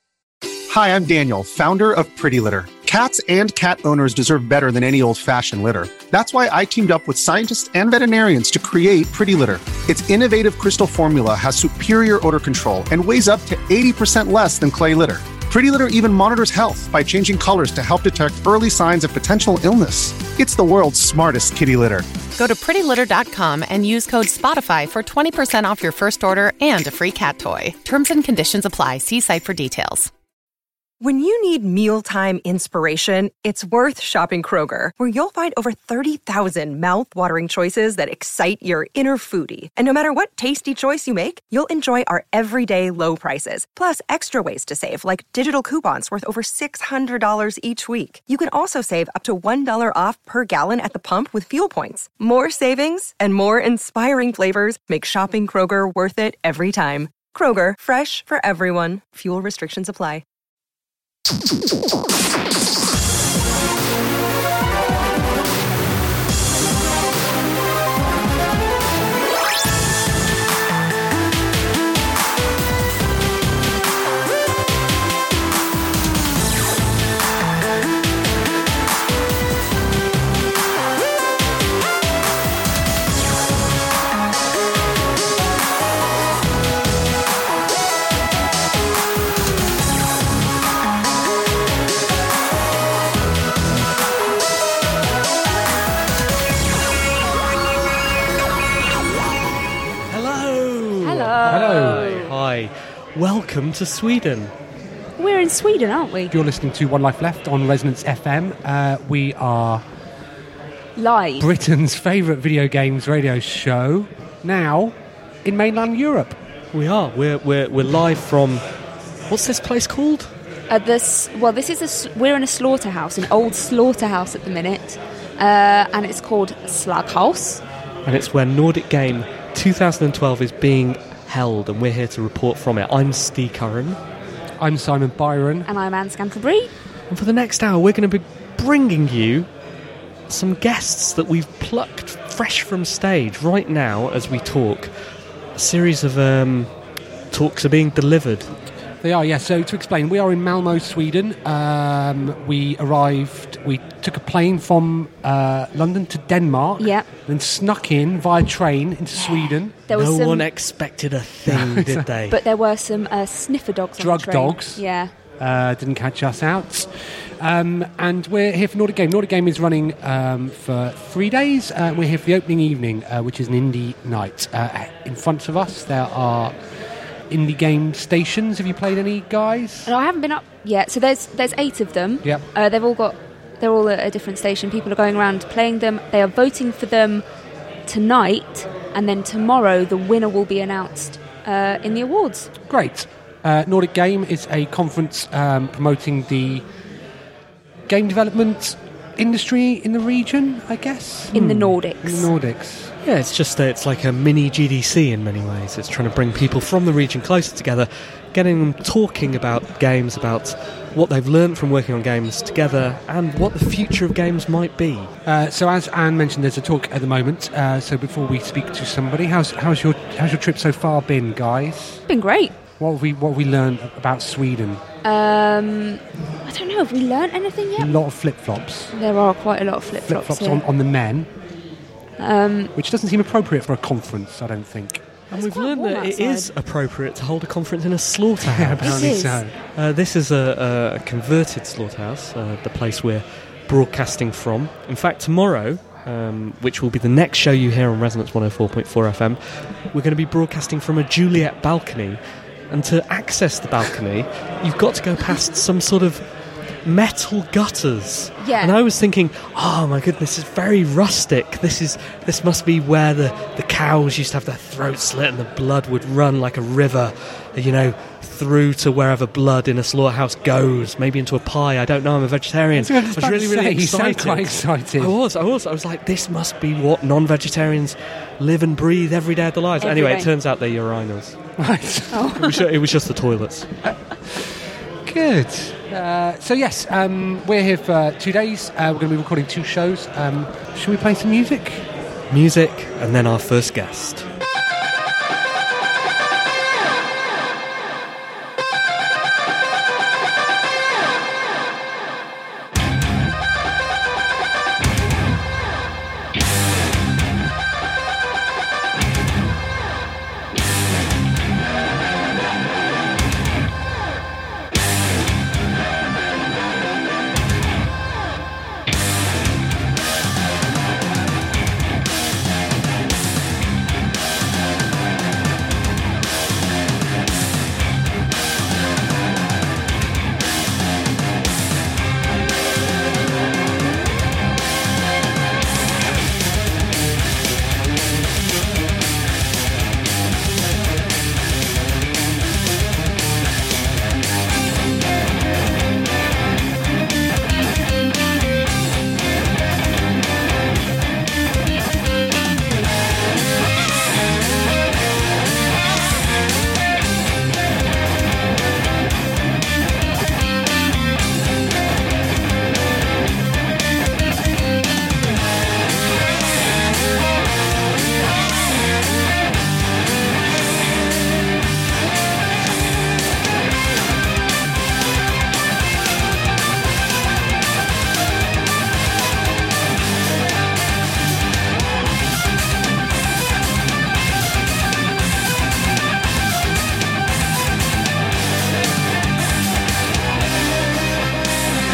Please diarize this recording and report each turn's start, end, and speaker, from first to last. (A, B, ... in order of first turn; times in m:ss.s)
0:00.7-0:22.1 A
0:22.4-0:30.1 B
0:31.0-1:00.2 C
1:40.1-1:44.5 D
1:41.0-1:42.3 E
1:41.5-1:42.1 F
1:45.2-1:46.3 E
1:46.3-1:49.8 F
1:51.0-1:51.5 E
1:51.4-1:56.4 F
1:56.7-1:58.6 D
1:59.3-2:00.3 D
2:00.7-2:07.6 E
2:08.1-2:14.0 D
2:14.6-2:15.7 F
2:15.7-2:16.7 E
2:17.1-2:19.5 D
2:20.3-2:24.9 D
2:25.6-2:26.7 D
2:27.3-2:28.5 D
2:29.0-2:39.8 F
2:36.8-2:37.1 E
2:39.9-2:40.5 E
2:39.9-2:42.4 D
2:41.5-2:42.1 F
2:42.3-2:45.1 E
2:44.0-2:44.8 F
2:45.4-2:46.9 F
2:47.4-2:56.5 F
2:57.3-2:59.9 F
2:59.9-3:07.2 E
3:07.9-3:12.5 E
3:12.7-3:16.6 F
3:17.9-3:22.9 F
3:21.3-3:22.3 E
3:23.0-3:35.1 D
3:35.2-3:42.0 F
3:42.1-3:42.5 E
3:42.8-3:44.8 F
3:45.0-3:48.0 E
3:47.8-3:48.9 F
3:48.9-3:50.6 E
3:50.0-3:51.3 F
3:52.2-3:52.7 E
3:52.8-3:55.1 F
3:55.3-3:56.5 E
3:55.3-3:59.2 D
3:58.4-3:59.5 F
3:58.8-3:59.4 E
3:59.8-4:09.4 D
4:09.9-4:16.2 D
4:16.8-4:41.4 D
4:18.4-4:18.8 E
4:32.7-4:35.2 F
4:39.8-4:40.3 E
4:41.6-4:42.3 F
4:42.1-4:42.6 E
4:42.4-4:43.7 D
4:45.1-4:51.8 F
4:52.3-4:54.3 D